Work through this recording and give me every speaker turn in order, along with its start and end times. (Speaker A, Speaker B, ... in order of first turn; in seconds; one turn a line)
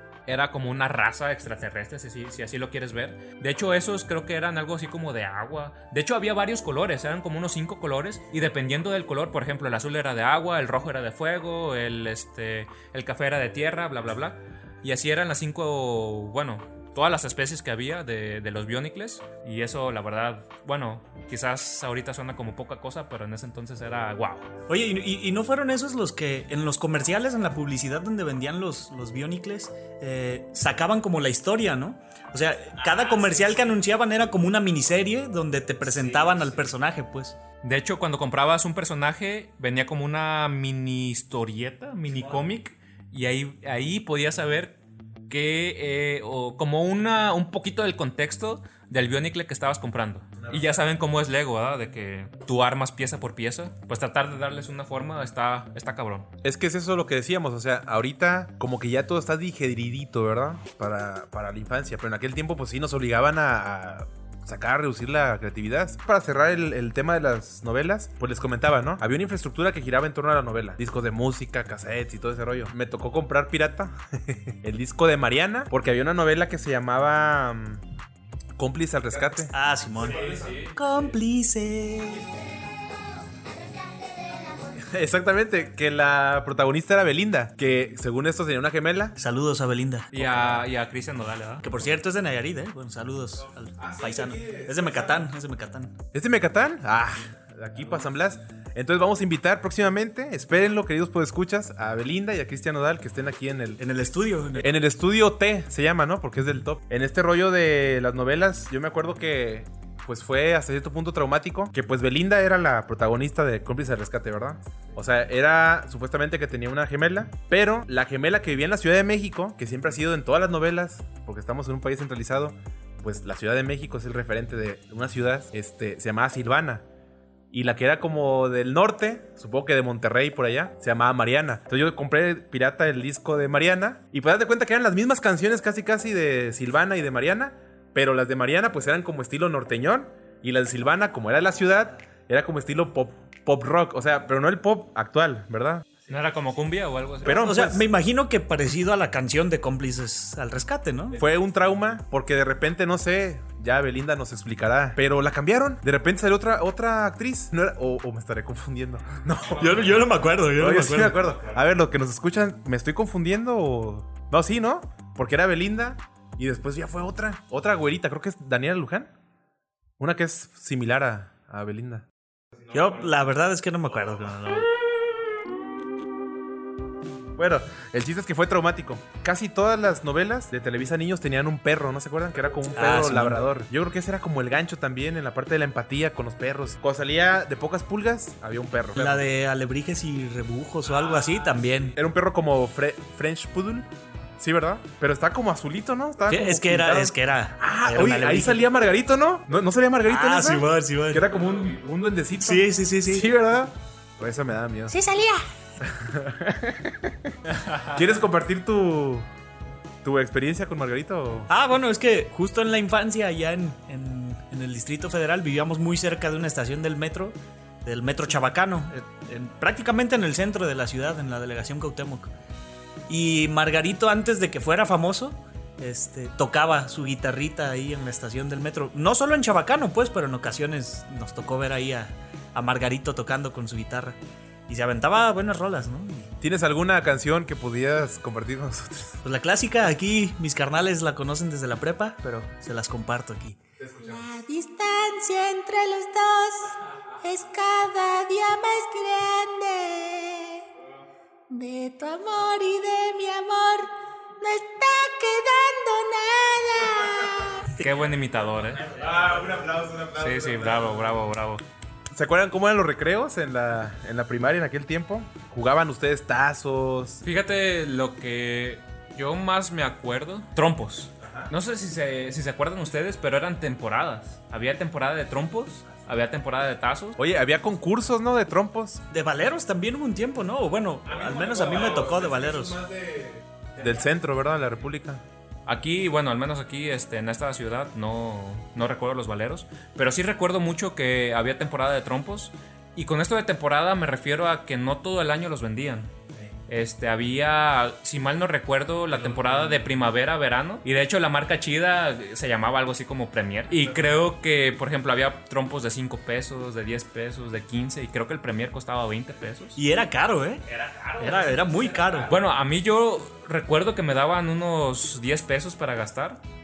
Speaker A: 0.3-24.4
Speaker B: 24.7-37.4
Speaker A: 32.8-33.7
Speaker A: 35.8-36.6
Speaker A: 37.6-44.8
Speaker A: 45.3-56.3
Speaker C: 50.4-50.8
Speaker C: 56.4-77.8
Speaker C: 78.6-79.5
Speaker B: 79.5-82.3
Speaker A: 80.0-80.8
Speaker C: 84.7-89.1
Speaker B: 89.2-90.5
Speaker A: 90.1-91.8
Speaker B: 91.6-96.0
Speaker C: 93.8-95.3
Speaker C: 96.1-103.8
Speaker B: 103.8-104.8
Speaker C: 104.6-126.8
Speaker C: 127.5-145.9
Speaker A: 146.1-147.4
Speaker C: 147.2-147.8
Speaker B: 147.2-151.2
Speaker C: 151.2-160.1
Speaker B: 159.4-161.2
Speaker C: 160.6-169.1
Speaker C: 170.0-172.1
Speaker B: 172.7-174.7
Speaker C: 177.4-189.3
Speaker B: 182.7-183.5
Speaker B: 188.9-191.9
Speaker C: 191.9-193.9
Speaker C: 194.4-205.0
Speaker B: 196.3-198.7
Speaker B: 200.1-201.4
Speaker B: 202.4-203.3
Speaker B: 204.9-205.4
Speaker D: 205.0-205.4
Speaker C: 205.8-207.4
Speaker A: 207.5-208.0
Speaker C: 207.9-209.3
Speaker C: 210.0-211.5
Speaker B: 211.5-222.3
Speaker B: 223.1-236.3
Speaker C: 236.4-239.2
Speaker B: 239.2-243.6
Speaker C: 243.8-244.2
Speaker D: 244.1-246.7
Speaker D: 247.2-250.6
Speaker D: 251.5-257.6
Speaker A: 257.8-259.1
Speaker C: 258.9-261.2
Speaker A: 260.1-261.6
Speaker C: 262.1-267.2
Speaker A: 267.2-277.2
Speaker C: 271.2-271.5
Speaker C: 277.2-279.0
Speaker B: 279.1-282.8
Speaker C: 281.1-285.2
Speaker A: 281.1-282.1
Speaker A: 285.7-296.1
Speaker A: 296.7-309.8
Speaker C: 299.1-299.9
Speaker B: 309.8-310.6
Speaker A: 310.7-316.4
Speaker B: 311.2-312.3